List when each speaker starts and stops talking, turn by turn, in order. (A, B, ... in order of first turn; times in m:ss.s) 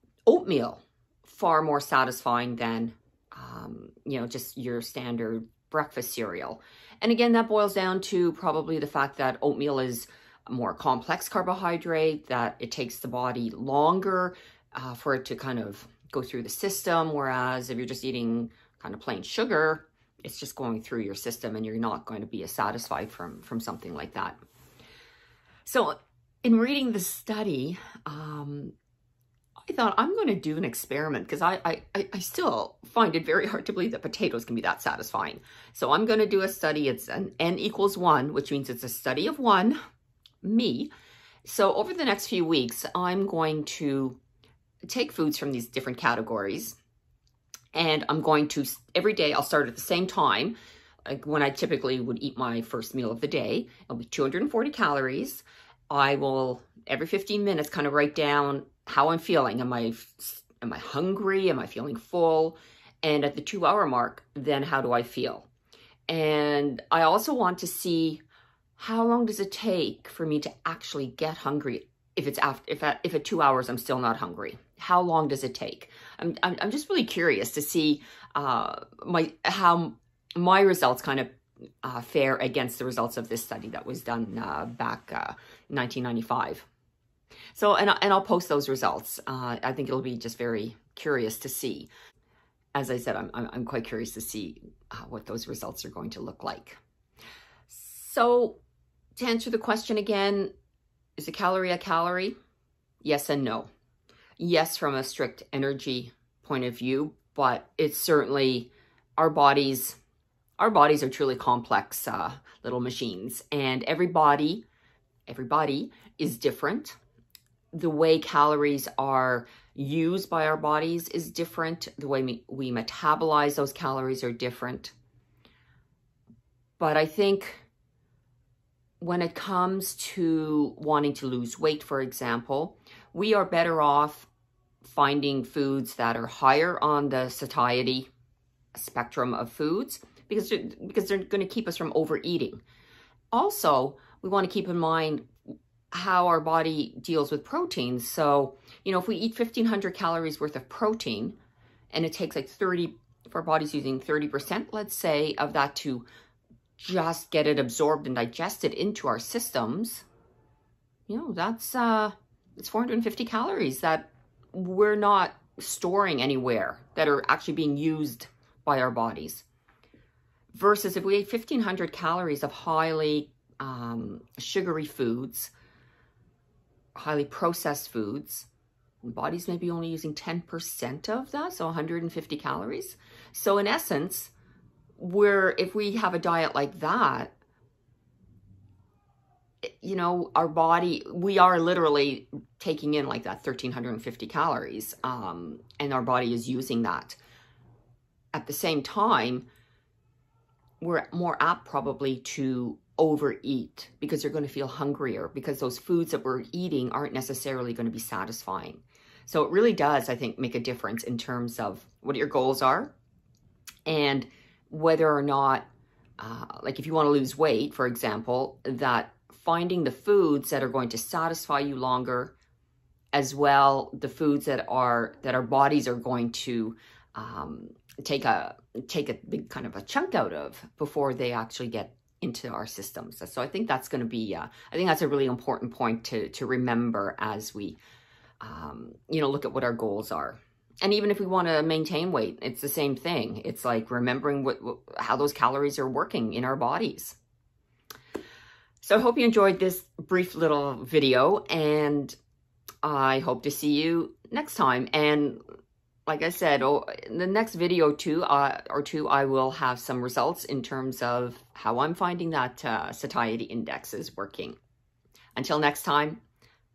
0:00.2-0:24.4 A
0:25.6-0:28.7 A
0:29.7-0:39.8 A
0:40.4-0:40.9 A
0:41.4-0:44.2 A
0:44.9-0:46.8 A
0:47.7-0:50.5 A
0:51.0-1:05.5 A
1:06.1-1:08.2 A
1:08.8-1:21.3 A
1:21.8-1:26.7 A
1:27.5-1:31.9 A
1:32.7-1:36.8 A
1:37.7-1:38.6 A
1:39.2-1:40.5 A
1:41.2-1:42.3 A
1:43.0-1:43.7 A
1:44.4-1:50.0 A
1:50.6-1:54.6 A
1:55.3-1:56.9 A
1:57.7-2:04.9 A
2:06.8-2:07.6 A
2:09.0-2:14.3 A
2:14.8-2:18.1 A
2:18.7-2:22.6 A
2:23.3-2:25.3 A
2:25.9-2:31.4 A
2:31.9-2:36.0 A
2:36.8-2:40.0 A
2:41.1-2:49.4 A
2:50.5-2:55.5 A
2:56.9-2:58.5 A
2:59.0-3:04.3 A
3:05.0-3:07.3 A
3:09.6-3:17.2 A
3:18.3-3:19.4 A
3:20.8-3:32.9 A
3:33.8-3:42.3 A
3:43.1-3:57.8 A
3:58.4-4:07.2 A
4:08.8-4:12.2 A
4:12.8-4:15.4 A
4:16.0-4:24.6 A
4:25.3-4:26.2 A